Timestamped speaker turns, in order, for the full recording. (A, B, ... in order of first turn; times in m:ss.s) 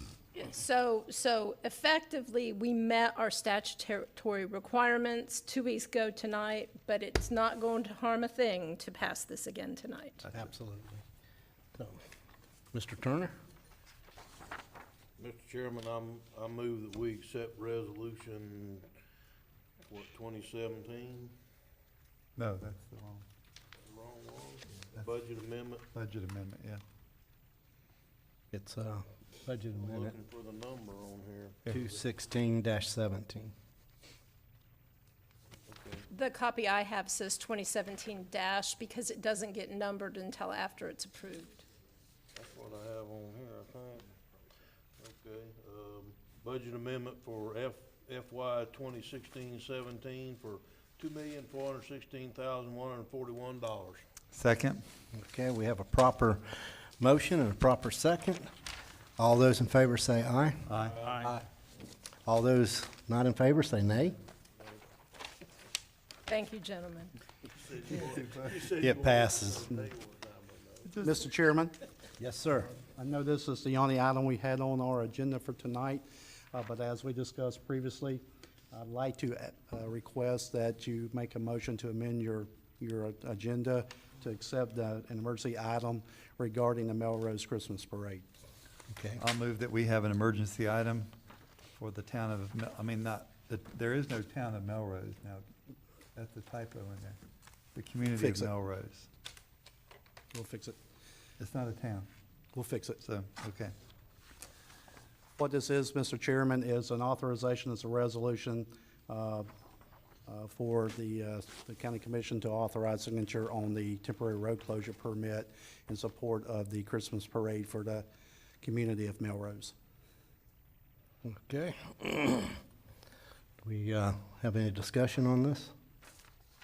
0:00.3-0:10.2 A
0:10.3-0:11.0 B
0:12.7-0:13.3 B
0:15.2-0:18.9 C
0:19.9-0:21.3 C
0:22.4-0:23.2 D
0:23.8-0:25.9 C
0:25.9-0:26.8 D
0:28.5-0:30.1 B
0:29.7-0:31.9 C
0:31.7-0:33.5 B
0:35.7-0:36.0 C
0:36.1-0:41.6 A
0:42.3-0:44.1 C
0:45.0-0:54.0 C
0:54.3-0:54.8 D
0:55.1-0:58.5 B
0:59.2-1:00.6 B
1:00.6-1:01.4 D
1:00.9-1:01.4 C
1:02.3-1:04.2 B
1:06.3-1:07.1 A
1:07.5-1:11.0 C
1:08.8-1:09.7 B
1:11.0-1:11.7 E
1:12.2-1:12.7 B
1:13.0-1:28.2 E
1:28.9-1:29.2 B
1:29.2-1:31.1 D
1:31.8-1:35.4 D
1:36.2-1:37.2 D
1:37.7-1:39.1 D
1:40.3-1:40.8 E
1:41.4-1:42.1 D
1:42.5-1:43.0 E
1:43.0-1:43.7 D
1:45.4-1:49.5 E
1:50.3-1:58.1 E
1:58.6-1:59.7 E
2:01.2-2:02.6 B
2:03.6-2:05.7 B